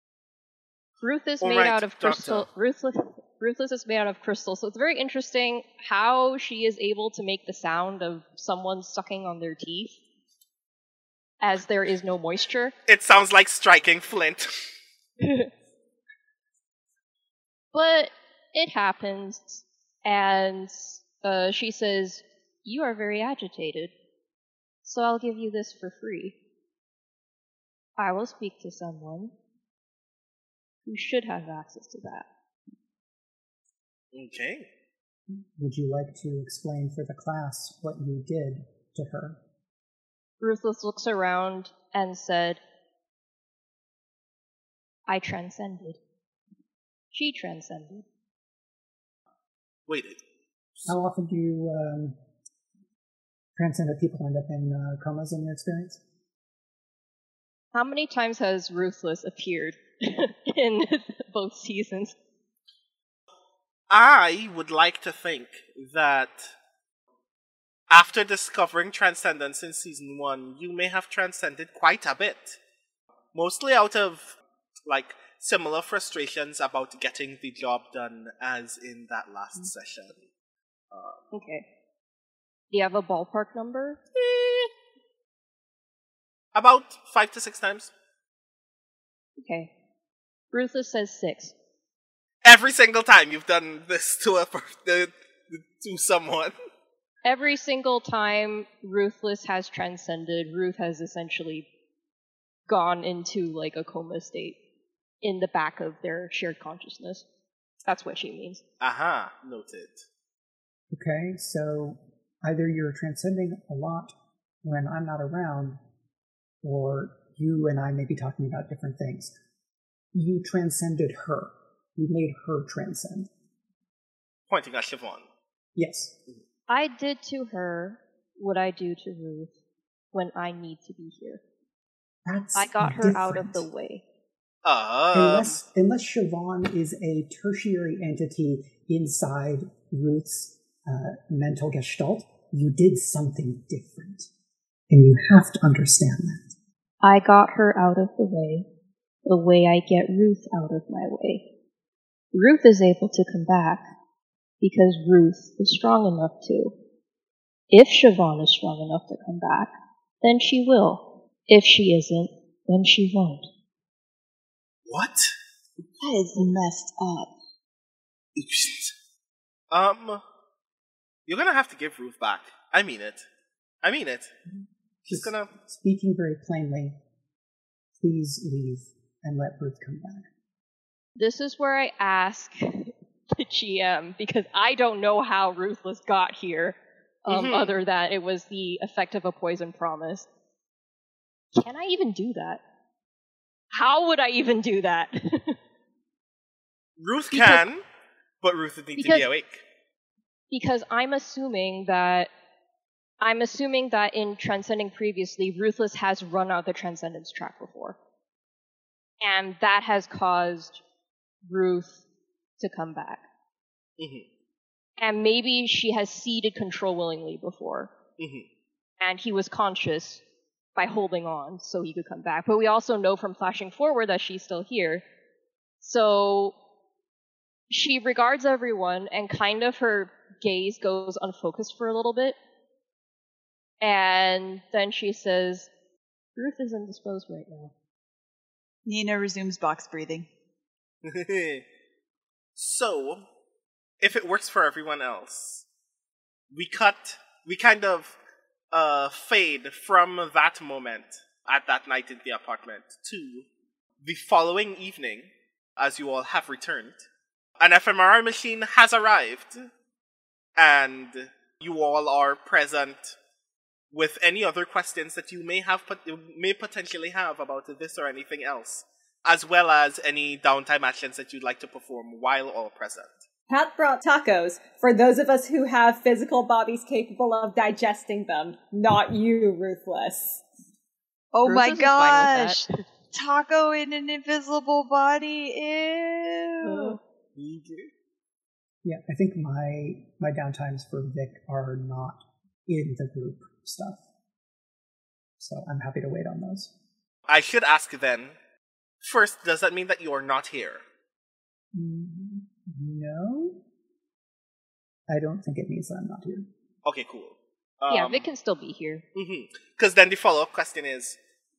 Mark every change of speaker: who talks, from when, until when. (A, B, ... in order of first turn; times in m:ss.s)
0:01.0-0:10.0 A
0:01.4-0:02.5 B
0:11.4-0:12.7 A
0:12.9-0:14.5 B
0:15.2-0:15.5 A
0:17.7-0:23.9 A
0:24.8-0:26.4 A
0:28.0-0:29.3 A
0:30.8-0:32.3 A
0:34.1-0:34.7 B
0:35.3-0:39.4 C
0:40.4-0:42.6 A
0:45.1-0:46.0 A
0:47.1-0:48.0 A
0:49.9-0:50.2 B
0:50.9-0:52.2 C
0:53.6-0:56.0 C
0:57.7-1:02.1 A
1:03.9-1:06.5 B
1:07.9-1:12.6 B
1:13.3-1:14.3 B
1:14.9-1:20.3 B
1:20.9-1:21.2 B
1:21.3-1:21.6 A
1:22.7-1:24.0 A
1:24.1-1:24.7 B
1:26.5-1:27.9 B
1:29.4-1:29.7 A
1:30.5-1:31.5 A
1:32.4-1:36.5 B
1:37.2-1:41.7 A
1:42.7-1:44.6 A
1:45.2-1:47.2 A
1:47.8-1:48.6 A
1:48.8-1:50.0 B
1:50.9-1:55.8 C
1:56.6-1:59.3 C
2:00.1-2:03.3 C
2:04.5-2:05.2 B
2:05.8-2:06.1 C
2:06.7-2:09.5 A
2:10.1-2:11.4 A
2:12.2-2:13.7 C
2:12.6-2:14.0 A
2:14.6-2:15.6 B
2:15.1-2:24.3 C
2:24.9-2:26.5 C
2:27.0-2:28.6 A
2:29.2-2:31.4 A
2:32.3-2:33.9 A
2:34.6-2:36.7 A
2:37.7-2:43.5 A
2:44.9-2:45.3 B
2:46.0-2:47.3 D
2:48.4-2:48.9 B
2:49.7-2:50.2 B
2:51.3-2:53.2 B
2:53.8-2:54.3 B
2:55.0-2:55.5 B
2:55.1-2:57.0 C
2:58.0-3:00.3 C
3:01.2-3:10.3 A
3:07.3-3:07.7 B
3:11.5-3:12.6 A
3:13.7-3:15.6 A
3:17.0-3:17.8 B
3:17.3-3:17.6 A
3:18.4-3:19.6 B
3:19.0-3:19.3 A
3:20.5-3:22.3 A
3:23.2-3:28.0 A
3:29.2-3:30.8 A
3:31.5-3:32.0 A
3:32.6-3:33.2 A
3:34.0-3:34.3 B
3:35.0-3:37.9 A
3:38.2-3:38.5 B
3:39.0-3:40.2 A
3:40.8-3:45.0 A
3:45.8-3:46.5 A
3:47.7-3:52.4 A
3:53.8-3:55.7 A
3:56.4-3:57.7 A
3:58.8-4:00.3 D
4:01.0-4:01.6 B
4:02.6-4:03.2 B
4:04.0-4:05.6 B
4:06.5-4:08.2 B
4:08.7-4:13.5 B
4:14.0-4:17.0 B
4:17.6-4:19.7 B
4:20.6-4:23.2 B
4:23.9-4:33.1 B
4:33.5-4:40.4 E
4:41.3-4:47.0 D
4:41.4-4:42.8 A
4:46.6-4:47.0 A
4:47.4-4:47.9 B
4:48.8-4:54.0 C
4:55.4-4:56.7 C
4:57.3-4:58.4 B
4:59.0-5:00.8 B
5:01.7-5:03.6 C
5:05.1-5:06.5 C
5:06.8-5:08.3 B
5:07.9-5:09.0 A
5:09.1-5:11.2 B